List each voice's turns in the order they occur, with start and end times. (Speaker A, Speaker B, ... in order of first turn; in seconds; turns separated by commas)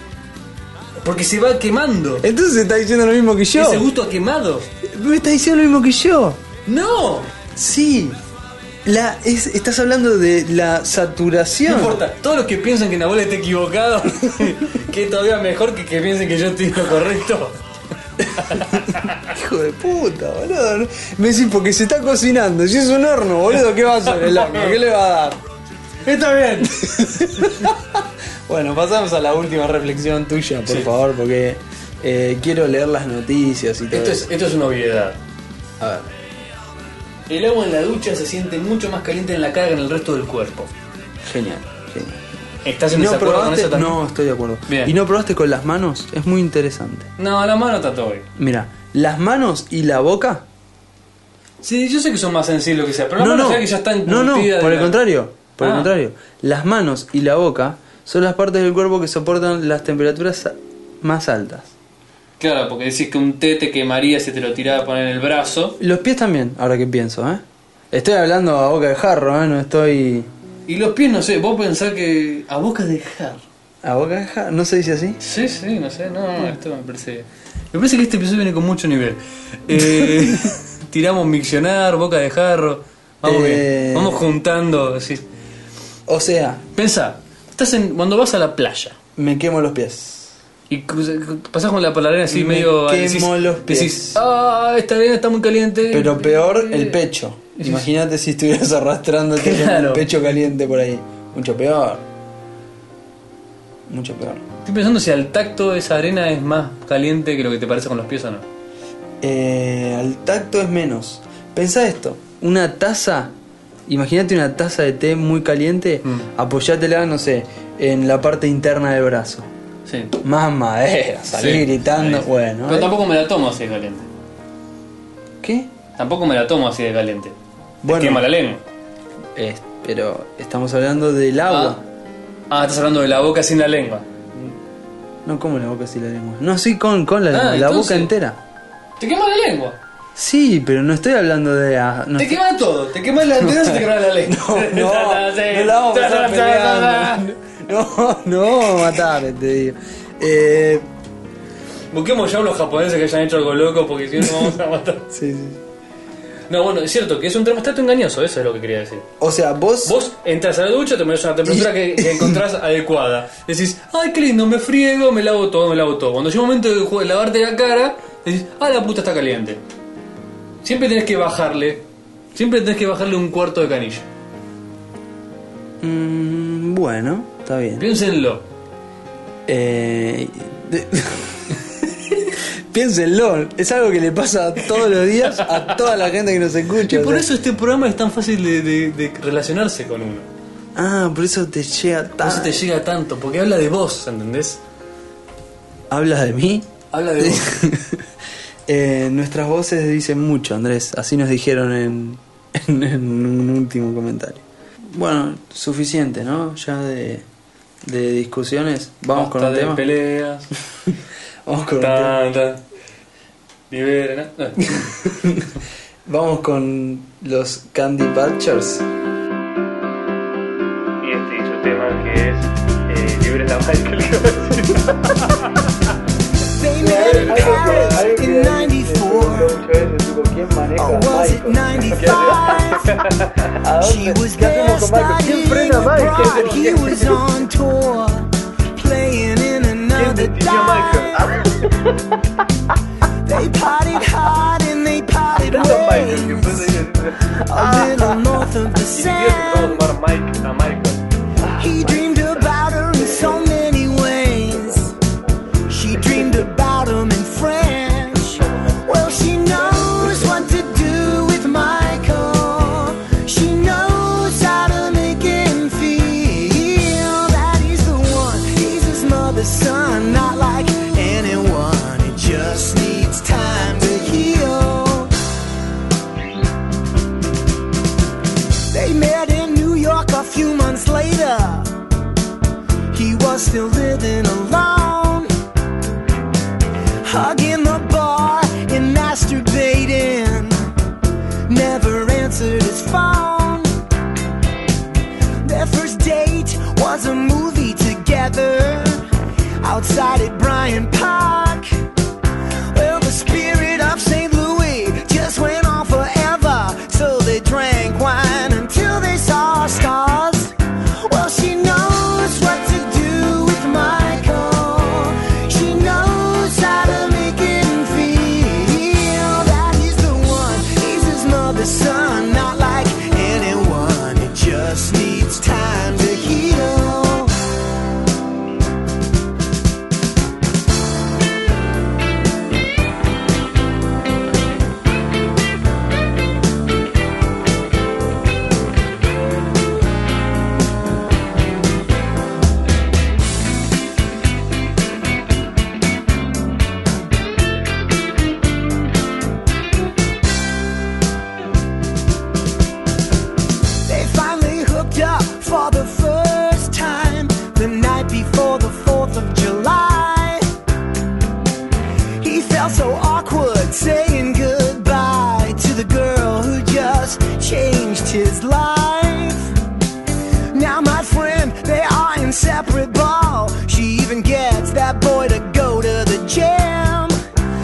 Speaker A: 1.0-2.3, Speaker B: 2.2-3.9, Speaker A: 3.5-4.7, Speaker B: 4.8-6.4, Speaker A: 6.7-7.3, Speaker B: 7.5-8.2, Speaker B: 8.8-12.0, Speaker A: 11.7-17.6, Speaker A: 18.3-19.2, Speaker B: 18.4-25.4, Speaker A: 24.1-24.8, Speaker A: 26.1-27.7, Speaker B: 26.6-34.3, Speaker A: 33.9-35.2, Speaker B: 35.8-36.1, Speaker A: 37.3-40.7, Speaker B: 41.2-42.2, Speaker A: 42.6-44.0, Speaker B: 42.9-47.1, Speaker A: 44.7-45.0, Speaker A: 47.2-48.3, Speaker B: 48.4-50.5, Speaker A: 51.6-55.0, Speaker B: 53.2-61.7, Speaker A: 55.6-55.9, Speaker A: 62.4-65.8, Speaker B: 65.8-70.3, Speaker A: 70.7-73.4, Speaker B: 73.8-75.2, Speaker A: 75.2-85.2, Speaker B: 79.7-80.5, Speaker B: 83.2-84.2, Speaker B: 86.1-86.6, Speaker A: 86.8-89.0, Speaker B: 89.2-90.3, Speaker A: 90.7-97.0, Speaker B: 92.3-94.2, Speaker B: 95.9-102.0, Speaker A: 97.6-97.9, Speaker A: 99.4-100.1, Speaker B: 103.9-104.4, Speaker A: 104.7-108.5, Speaker B: 109.2-113.3, Speaker B: 113.9-119.5, Speaker A: 119.9-120.2, Speaker B: 120.2-122.9, Speaker A: 121.3-124.1, Speaker B: 125.4-125.7, Speaker A: 126.0-127.3, Speaker B: 127.8-128.3, Speaker A: 127.9-128.6, Speaker B: 129.4-131.8, Speaker A: 131.5-131.8, Speaker A: 132.5-134.5, Speaker B: 135.2-138.4, Speaker A: 137.3-138.1, Speaker A: 139.0-139.8, Speaker B: 140.2-142.4, Speaker A: 142.2-147.3, Speaker B: 143.4-150.9, Speaker A: 151.9-155.1, Speaker B: 154.3-154.5, Speaker B: 155.1-155.6, Speaker A: 156.5-159.1, Speaker B: 159.2-160.0, Speaker A: 159.8-169.6, Speaker B: 161.5-162.4, Speaker A: 170.6-171.8, Speaker A: 172.3-174.1, Speaker B: 175.8-177.9, Speaker A: 177.8-178.4, Speaker B: 179.5-187.3, Speaker A: 185.3-185.8, Speaker A: 186.8-190.3, Speaker B: 190.8-192.6, Speaker A: 192.2-194.6, Speaker B: 195.9-198.1, Speaker A: 196.9-197.6, Speaker B: 198.7-207.2, Speaker B: 207.8-209.8, Speaker A: 209.1-210.5, Speaker B: 210.9-212.2, Speaker A: 211.8-212.6, Speaker A: 213.7-214.9, Speaker B: 214.8-215.5, Speaker B: 216.1-218.8, Speaker A: 221.0-225.7, Speaker C: 226.6-229.6, Speaker B: 226.8-232.6, Speaker A: 226.9-228.1, Speaker C: 230.8-233.0, Speaker A: 231.9-233.5, Speaker B: 233.6-237.2, Speaker C: 233.8-241.5, Speaker A: 236.0-237.2, Speaker A: 239.9-241.4, Speaker C: 243.2-246.7, Speaker A: 245.4-247.5, Speaker C: 247.4-249.8, Speaker B: 247.6-248.1, Speaker A: 248.9-251.0, Speaker C: 251.6-254.9, Speaker A: 251.6-252.6, Speaker C: 255.7-275.1, Speaker A: 259.6-260.4, Speaker C: 278.7-281.7, Speaker C: 282.9-285.3, Speaker C: 287.0-290.7, Speaker C: 291.5-293.7, Speaker C: 295.4-299.0, Speaker C: 299.6-301.7, Speaker C: 302.7-327.4, Speaker C: 353.9-360.5, Speaker C: 362.2-369.5, Speaker C: 370.5-377.2